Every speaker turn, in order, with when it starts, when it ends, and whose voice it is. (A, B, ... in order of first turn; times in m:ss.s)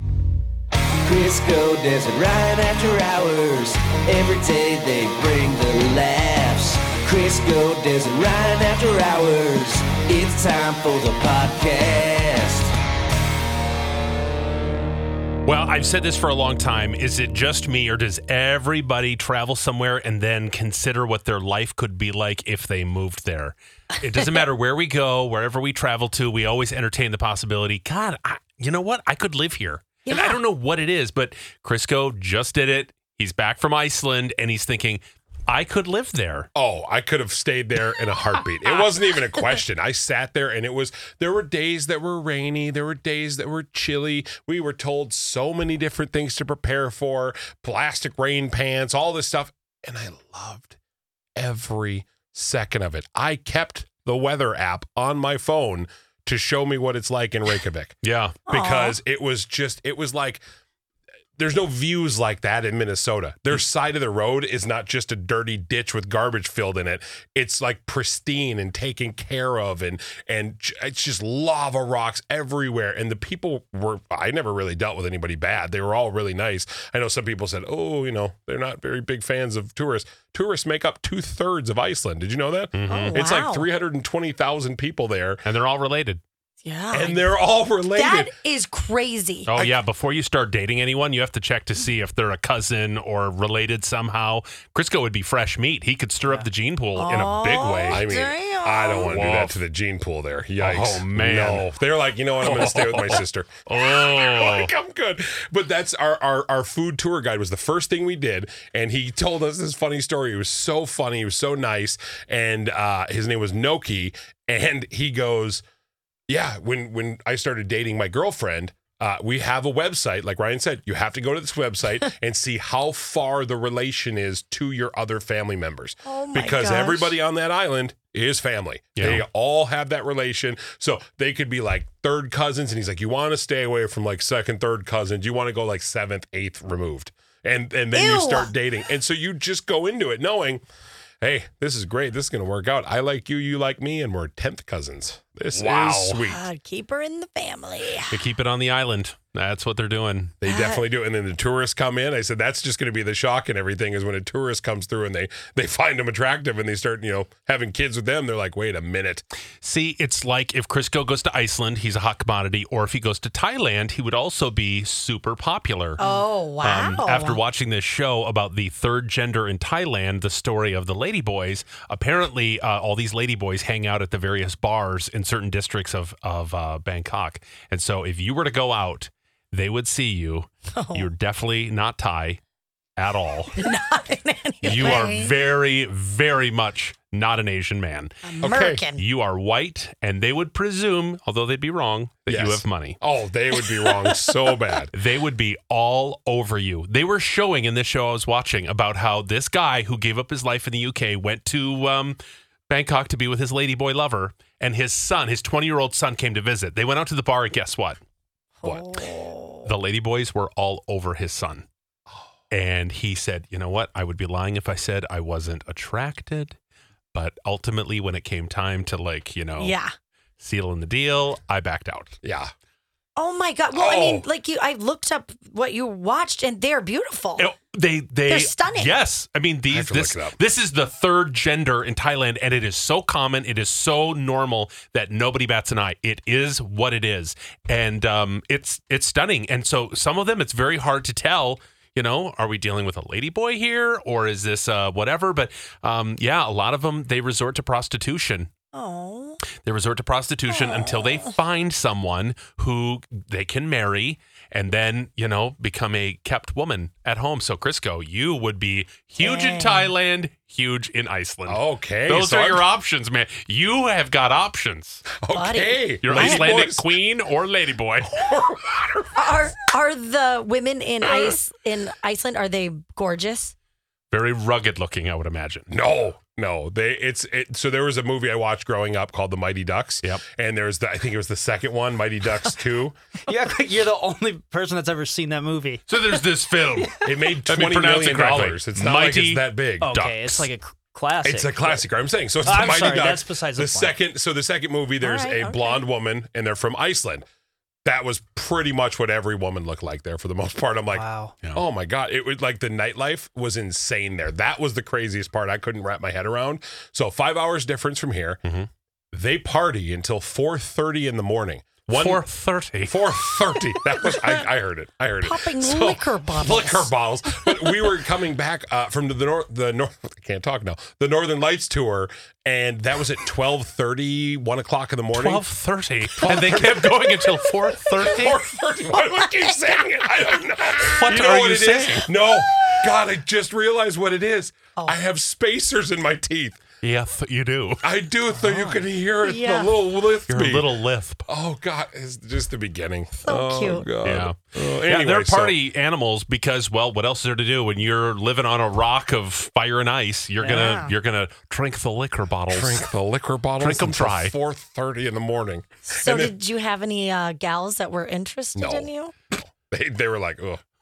0:01.0-0:12.7 A
0:15.4-0:36.5 B
0:30.0-0:30.4 C
0:36.5-0:50.8 D
0:51.4-1:00.4 D
0:58.0-0:58.4 B
0:58.5-0:59.0 C
1:01.4-1:25.4 D
1:22.7-1:23.2 B
1:22.9-1:23.6 C
1:25.4-1:26.2 B
1:26.6-1:27.3 C
1:26.9-1:28.3 D
1:27.9-1:29.5 C
1:29.5-1:38.0 B
1:37.0-1:39.1 C
1:37.9-1:55.6 D
1:39.1-1:39.6 B
1:40.6-1:41.7 B
1:42.4-1:44.7 B
1:56.3-2:20.6 D
2:06.0-2:07.2 C
2:09.0-2:09.2 B
2:17.9-2:18.5 C
2:21.2-2:26.4 D
2:25.5-2:26.2 B
2:26.2-2:28.2 C
2:28.1-2:30.3 B
2:30.4-2:39.2 D
2:30.5-2:30.8 C
2:39.6-2:46.0 B
2:46.0-2:47.4 C
2:46.6-3:02.4 B
3:00.7-3:01.1 C
3:03.0-3:03.6 B
3:03.6-3:05.3 C
3:04.6-3:13.0 B
3:08.2-3:09.0 C
3:08.4-3:08.8 D
3:12.3-3:14.9 D
3:13.6-3:14.5 C
3:14.9-3:28.0 B
3:28.6-3:29.7 C
3:29.6-3:31.6 B
3:32.5-3:36.6 B
3:37.1-3:39.7 B
3:39.6-3:39.9 C
3:40.4-3:42.2 B
3:42.2-3:42.5 D
3:43.2-3:47.5 C
3:43.7-3:44.2 D
3:47.4-4:08.5 B
3:48.2-3:48.9 C
3:49.7-3:50.4 D
4:08.7-4:09.4 C
4:09.6-4:25.0 B
4:10.5-4:11.3 C
4:19.2-4:19.9 C
4:21.5-4:22.6 D
4:25.1-4:26.9 D
4:25.3-4:26.5 C
4:26.0-4:28.2 B
4:28.1-4:29.3 D
4:29.2-4:33.5 C
4:34.1-4:35.7 B
4:35.7-4:43.0 D
4:43.3-4:45.8 E
4:45.9-4:49.5 B
4:47.0-4:50.4 D
4:49.8-4:51.8 E
4:51.2-4:57.2 D
4:52.4-4:54.0 E
4:55.0-4:55.8 C
4:57.8-5:08.4 D
5:00.9-5:01.4 E
5:09.1-5:12.2 D
5:11.9-5:13.0 B
5:12.8-5:25.4 D
5:15.2-5:16.9 C
5:25.1-5:28.4 B
5:26.2-5:36.6 D
5:29.2-5:29.5 C
5:30.9-5:32.1 B
5:36.8-5:37.9 B
5:37.8-5:40.7 D
5:39.2-5:39.7 C
5:40.3-5:41.2 B
5:41.3-5:45.6 D
5:43.2-5:43.8 C
5:44.0-5:52.8 B
5:50.4-5:50.9 C
5:52.5-5:56.3 D
5:53.6-5:54.3 B
5:55.9-5:59.1 C
5:58.5-6:00.6 D